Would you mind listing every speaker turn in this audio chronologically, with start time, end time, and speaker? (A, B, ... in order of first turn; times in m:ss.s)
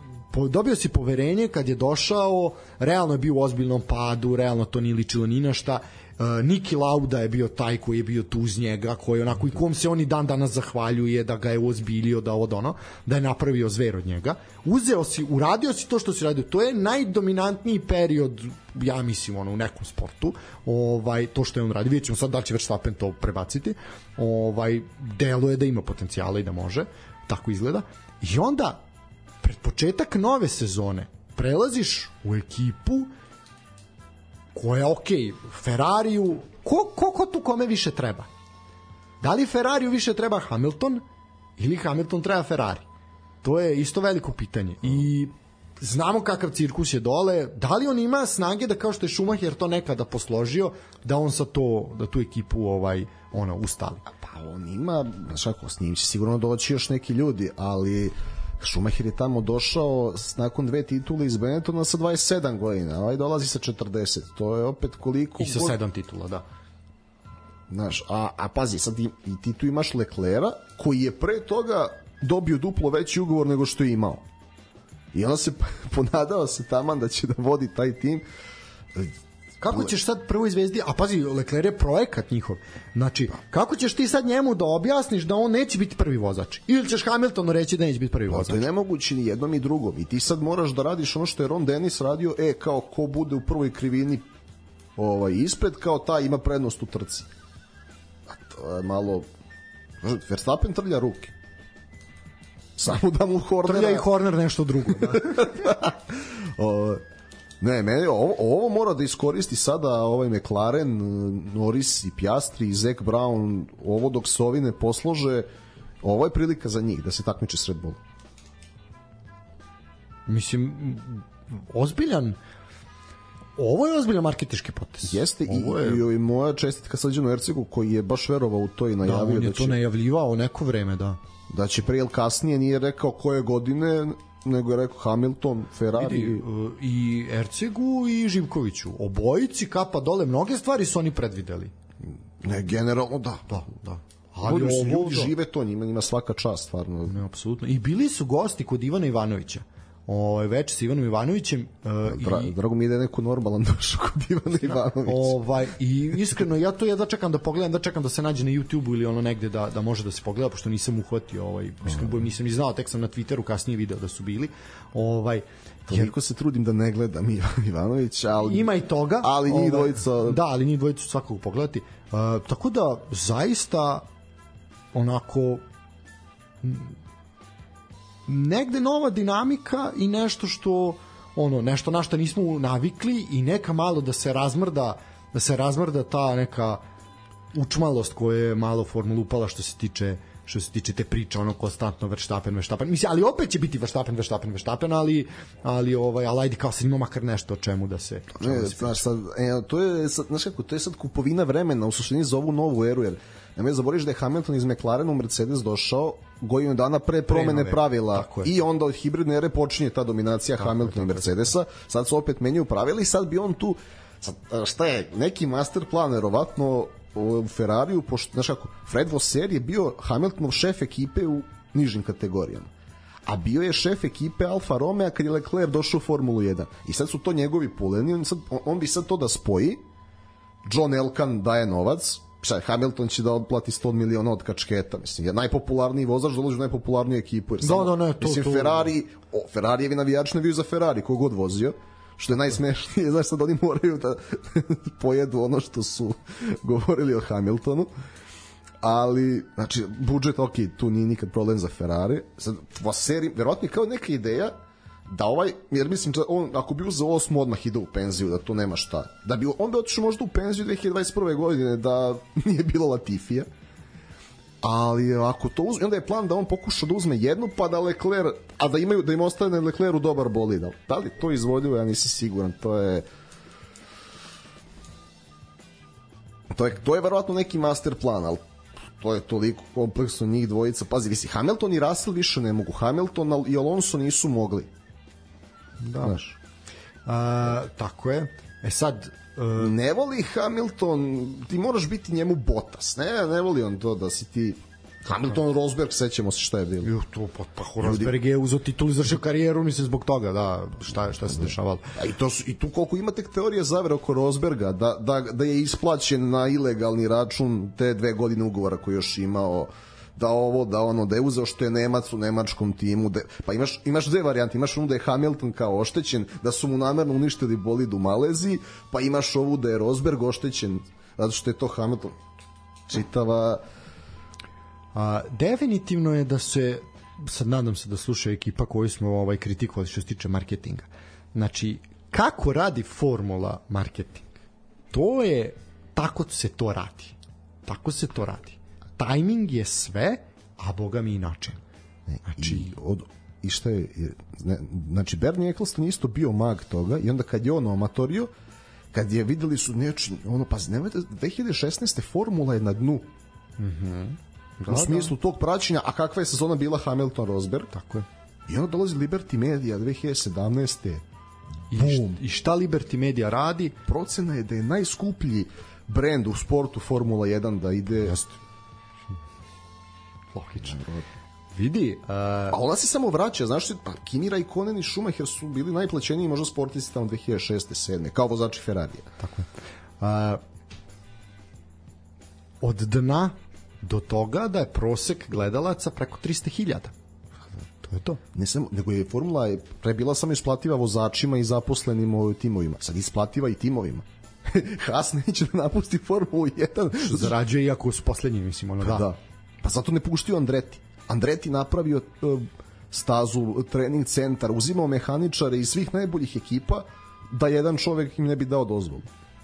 0:00.3-0:28.8 A
0:29.4-0:33.1 A
0:34.5-0:38.3 A
0:39.2-0:41.0 A
0:41.6-0:42.8 A
0:43.4-0:54.1 A
0:54.2-1:05.8 B
1:05.4-1:06.4 A
1:07.7-1:14.2 B
1:15.1-1:18.2 B
1:19.6-1:28.6 A
1:28.3-1:34.2 B
1:35.0-1:37.3 B
1:38.3-1:39.3 B
1:40.0-1:41.3 B
1:42.8-1:44.1 B
1:43.6-1:45.6 A
1:45.0-1:47.0 B
1:47.6-1:55.5 B
1:56.0-1:58.0 B
2:00.3-2:02.4 A
2:03.6-2:06.0 A
2:05.1-2:09.8 B
2:09.0-2:11.2 A
2:11.5-2:16.4 B
2:15.9-2:21.7 A
2:22.4-2:27.2 B
2:24.3-2:25.3 A
2:27.1-2:32.5 A
2:32.1-2:35.3 B
2:34.6-2:46.1 A
2:45.9-2:50.4 B
2:48.4-2:54.0 A
2:54.9-2:55.6 A
2:56.6-2:57.0 A
2:58.3-3:06.8 A
3:07.5-3:19.0 A
3:18.4-3:42.7 B
3:27.3-3:28.5 A
3:30.6-3:31.4 A
3:43.2-3:49.8 B
3:50.6-4:07.9 B
3:57.6-3:58.9 A
4:08.8-4:14.5 B
4:15.1-4:23.5 B
4:24.6-4:33.0 B
4:36.5-4:38.4 B
4:39.0-4:44.7 B
4:45.8-4:46.2 A
4:46.0-4:46.3 B
4:47.0-4:49.7 A
4:49.6-4:56.9 B
4:56.8-5:01.9 A
4:57.8-4:58.1 B
5:02.0-5:22.2 B
5:22.9-5:23.6 B
5:24.9-5:34.3 A
5:34.9-5:41.6 A
5:42.1-5:48.3 B
5:42.2-5:42.7 A
5:48.9-5:53.1 B
5:53.6-5:55.1 A
5:54.7-5:57.7 B
5:57.7-5:58.1 A
5:58.5-6:01.0 B
6:01.7-6:03.8 A
6:01.7-6:02.1 B
6:03.9-6:08.2 B
6:08.1-6:08.4 A
6:10.3-6:10.8 A
6:10.6-6:11.0 B
6:11.5-6:12.6 A
6:12.5-6:19.1 B
6:19.2-6:20.4 A
6:22.6-6:26.9 A
6:27.8-6:28.2 A
6:28.3-6:37.3 B
6:37.0-6:39.1 A
6:38.8-6:49.1 B